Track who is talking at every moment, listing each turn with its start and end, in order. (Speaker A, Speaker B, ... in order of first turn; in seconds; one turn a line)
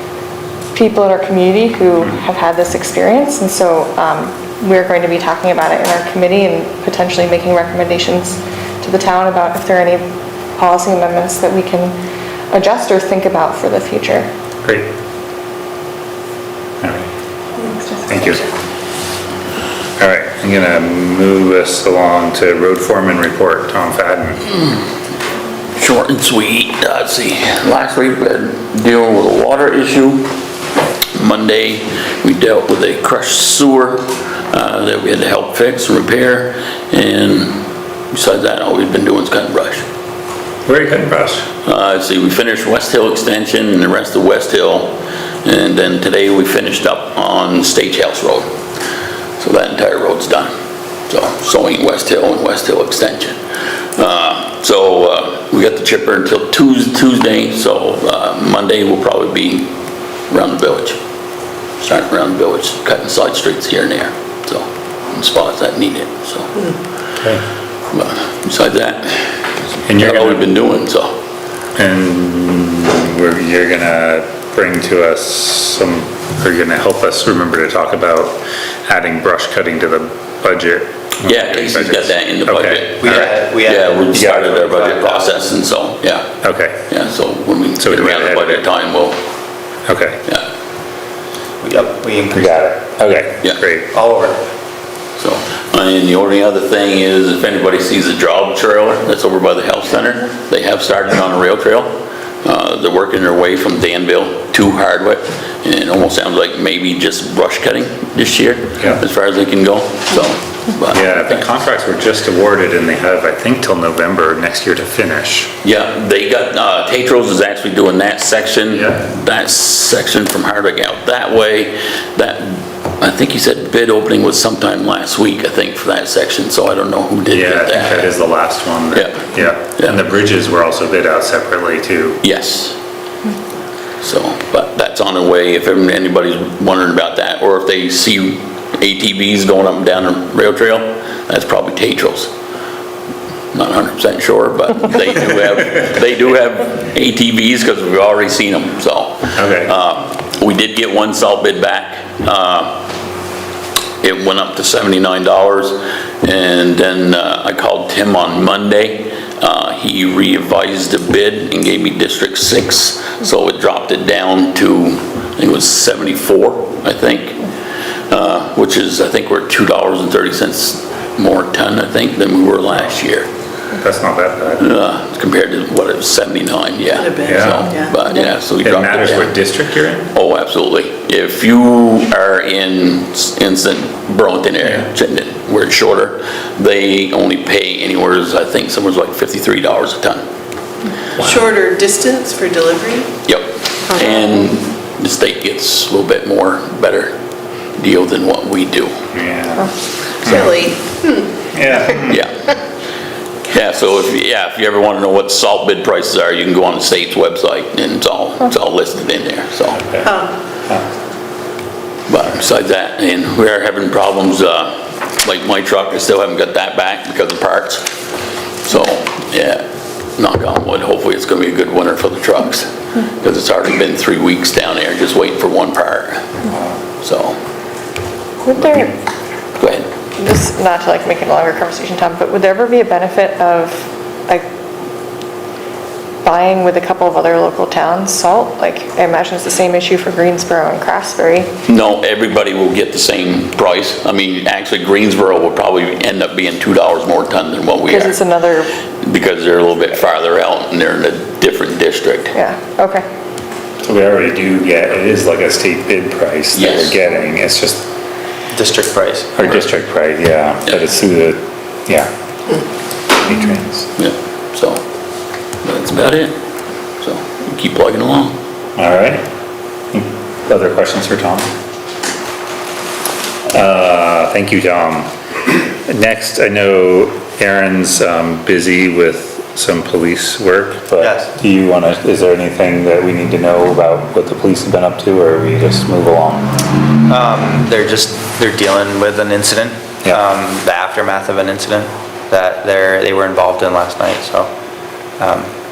Speaker A: 0.7-10.1
Speaker A: 10.6-11.9
Speaker A: 12.5-14.3
Speaker B: 14.6-14.9
Speaker B: 16.8-17.1
Speaker A: 17.6-18.5
Speaker B: 18.1-18.4
Speaker B: 20.0-24.5
Speaker C: 25.8-30.3
Speaker C: 31.1-37.6
Speaker C: 38.1-39.8
Speaker B: 40.7-41.5
Speaker C: 41.6-48.5
Speaker C: 49.4-50.5
Speaker C: 51.1-53.4
Speaker C: 54.0-59.7
Speaker C: 60.3-61.0
Speaker C: 61.8-66.7
Speaker C: 67.9-71.1
Speaker B: 69.8-70.5
Speaker B: 71.8-83.3
Speaker C: 81.2-86.3
Speaker D: 83.0-85.5
Speaker B: 84.1-84.5
Speaker B: 86.4-86.9
Speaker C: 86.9-89.2
Speaker B: 87.8-88.7
Speaker B: 89.9-90.2
Speaker D: 91.6-92.7
Speaker B: 92.3-93.9
Speaker D: 93.9-94.4
Speaker C: 95.2-111.4
Speaker B: 110.9-115.5
Speaker C: 115.6-128.1
Speaker B: 118.7-119.0
Speaker B: 127.3-132.2
Speaker C: 128.9-130.0
Speaker C: 132.2-132.8
Speaker C: 134.0-142.3
Speaker C: 143.5-152.8
Speaker B: 149.4-149.7
Speaker C: 154.0-167.4
Speaker C: 168.1-173.3
Speaker B: 173.8-174.7
Speaker C: 174.6-179.4
Speaker E: 177.0-177.9
Speaker B: 177.2-177.7
Speaker B: 178.6-180.1
Speaker C: 180.1-190.2
Speaker E: 191.2-193.1
Speaker C: 193.3-197.1
Speaker C: 197.8-198.9
Speaker B: 199.1-200.7
Speaker E: 200.3-201.3
Speaker B: 201.5-202.2
Speaker C: 202.1-202.3
Speaker C: 203.5-209.8
Speaker B: 209.7-210.9
Speaker C: 212.1-217.9
Speaker C: 218.7-219.6
Speaker C: 220.2-226.2
Speaker C: 227.0-227.4
Speaker A: 228.5-228.9
Speaker C: 229.6-229.9
Speaker A: 230.2-234.5
Speaker A: 236.2-241.5
Speaker C: 241.7-248.2
Speaker A: 247.9-248.7
Speaker C: 249.0-252.3
Speaker A: 252.3-253.0
Speaker B: 253.8-257.9
Speaker C: 256.5-257.0
Speaker D: 258.5-259.3
Speaker B: 259.4-262.1
Speaker B: 263.2-263.9
Speaker C: 264.0-264.8
Speaker C: 265.6-266.4
Speaker C: 267.0-268.4
Speaker B: 268.8-269.2
Speaker B: 269.9-271.5
Speaker B: 273.5-275.1
Speaker B: 275.7-286.5
Speaker D: 281.0-281.3
Speaker D: 287.1-294.5
Speaker D: 295.2-295.5